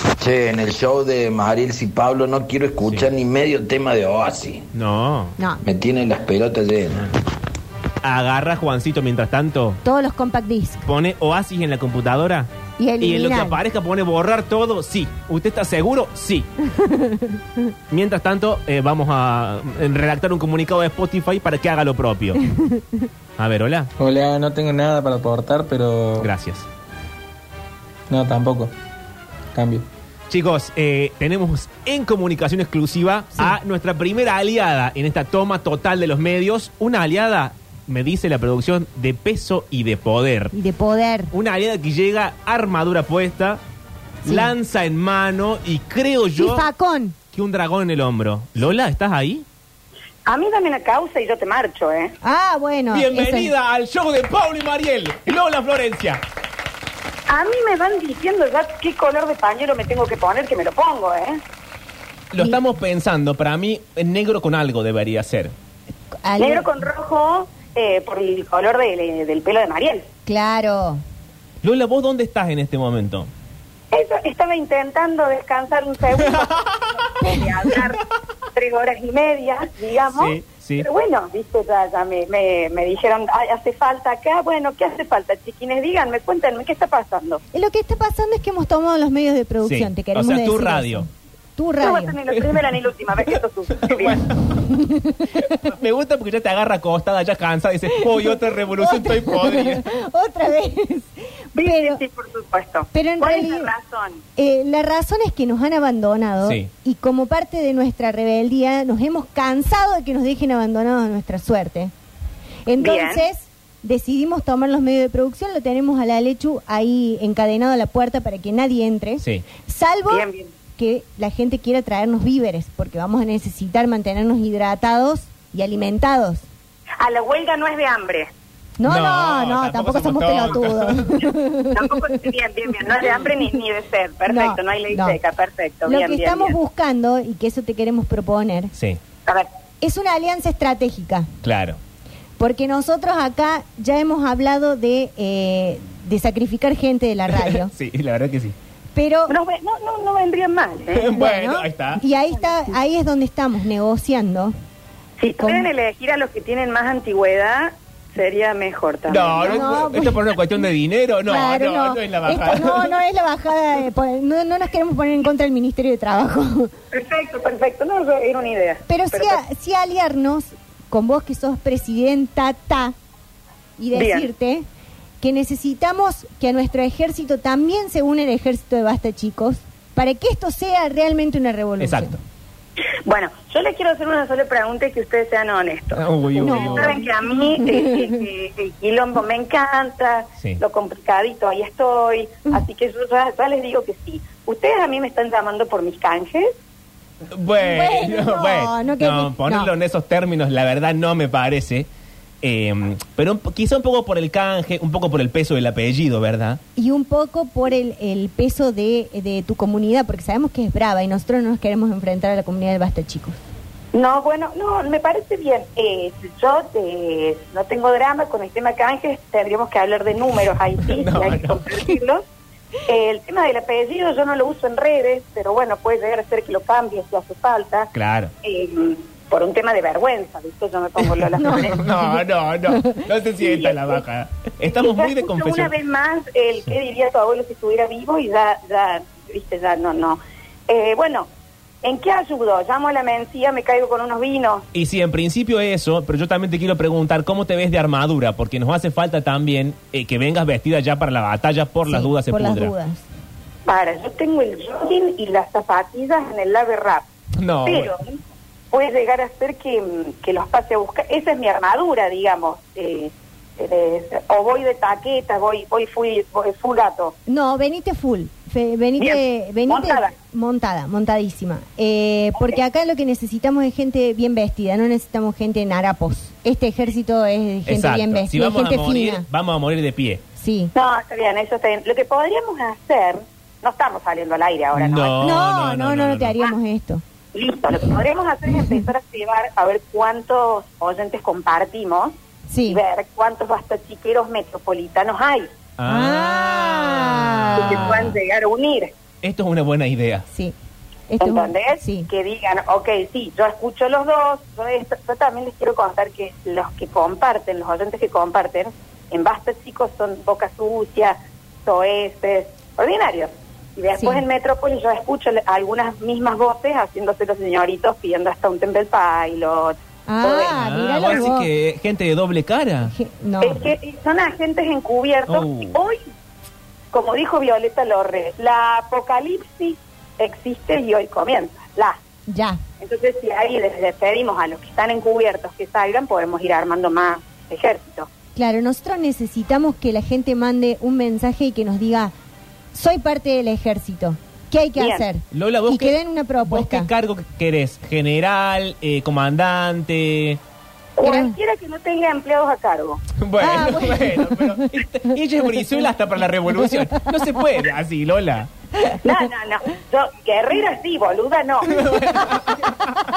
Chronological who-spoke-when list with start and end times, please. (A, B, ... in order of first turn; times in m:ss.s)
0:00.2-0:04.6 A
0:02.8-0:03.1 B
0:04.7-0:05.4 B
0:05.6-0:07.0 A
0:08.0-0:09.8 B
0:09.8-0:10.8 C
0:10.8-0:16.5 B
0:12.8-0:13.6 C
0:16.7-0:17.4 C
0:17.9-0:22.4 B
0:22.6-0:22.8 C
0:23.4-0:23.9 B
0:24.0-0:26.3 D
0:26.2-0:26.7 B
0:28.1-0:28.7 D
0:29.5-0:29.8 D
0:30.3-0:40.5 B
0:40.5-0:41.3 C
0:41.3-0:43.6 B
0:44.2-0:44.5 C
0:44.2-0:46.7 B
0:46.4-0:47.1 C
0:47.3-0:49.4 B
0:50.3-0:52.1 E
0:52.2-0:53.5 C
0:52.9-0:56.2 B
0:57.3-1:01.4 E
1:02.3-1:05.5 B
1:06.2-1:06.7 C
1:06.4-1:10.0 E
1:10.2-1:11.0 C
1:11.6-1:13.3 B
1:13.9-1:18.0 E
1:17.2-1:17.5 C
1:18.6-1:27.4 E
1:20.0-1:20.9 B
1:27.5-1:32.2 C
1:29.6-1:31.0 B
1:31.8-1:34.2 E
1:32.3-1:32.6 B
1:33.8-1:34.8 B
1:34.7-1:35.5 C
1:35.4-1:39.8 B
1:38.0-1:42.0 C
1:41.6-1:44.2 E
1:42.9-1:43.7 C
1:44.4-1:51.9 C
1:46.4-1:46.7 B
1:52.6-2:06.4 C
1:52.8-1:53.2 E
2:00.1-2:00.4 E
2:07.0-2:08.3 E
2:08.8-2:11.9 C
2:08.8-2:11.3 B
2:11.7-2:16.5 E
2:14.3-2:15.2 C
2:15.8-2:18.7 C
2:18.7-2:19.0 B
2:19.8-2:21.3 C
2:21.4-2:21.8 B
2:22.4-2:27.7 C
2:27.4-2:28.5 B
2:28.9-2:29.4 C
2:29.3-2:31.1 E
2:30.9-2:32.0 B
2:31.1-2:34.5 C
2:35.2-2:39.5 E
2:35.4-2:35.7 C
2:39.1-2:43.0 B
2:39.4-2:40.2 C
2:41.3-2:46.7 C
2:46.9-2:49.4 E
2:48.9-2:52.9 C
2:53.8-2:54.6 C
2:53.9-2:54.3 E
2:55.2-3:02.2 C
3:01.8-3:02.2 B
3:03.1-3:16.5 E
3:05.9-3:07.0 B
3:06.4-3:08.1 C
3:17.3-3:21.9 B
3:17.6-3:19.7 C
3:22.4-3:26.6 B
3:26.8-3:33.4 C
3:33.9-3:42.2 E
3:40.9-3:41.6 B
3:42.9-3:47.9 E
3:47.9-3:48.3 B
3:48.4-3:51.8 E
3:51.3-3:55.8 B
3:51.4-3:52.0 C
3:53.5-3:53.8 E
3:54.6-4:01.2 E
4:01.8-4:04.6 E
4:04.7-4:12.7 B
4:11.8-4:13.0 C
4:13.7-4:17.0 E
4:17.4-4:17.9 B
4:17.6-4:18.0 E
4:18.7-4:27.1 E
4:27.2-4:39.2 C
4:29.0-4:30.1 E
4:37.7-4:40.2 B
4:40.4-4:40.7 C
4:40.8-4:45.2 E
4:44.7-4:46.3 B
4:45.2-4:47.0 C
4:47.4-4:52.1 E
4:52.5-4:52.8 C
4:52.7-4:55.4 E
4:55.8-4:58.2 B
4:55.8-4:58.1 C
4:57.6-4:58.9 E
4:59.2-5:00.2 B
5:01.1-5:02.1 C
5:01.2-5:11.2 E
5:11.7-5:20.5 E
5:14.0-5:14.2 C
5:20.1-5:21.5 C
5:20.5-5:22.9 B
5:22.9-5:23.7 C
5:23.4-5:26.0 E
5:25.3-5:25.8 B
5:26.9-5:32.0 E
5:32.3-5:32.6 C
5:32.8-5:38.1 E
5:38.3-5:42.1 C
5:42.7-5:46.9 C
5:44.8-5:45.0 E
5:45.3-5:50.4 B
5:51.0-5:53.0 E
5:51.0-5:51.3 C
5:53.2-5:58.5 B
5:53.4-5:54.6 C
5:59.0-6:01.7 E
6:01.7-6:02.9 B
6:01.9-6:02.3 C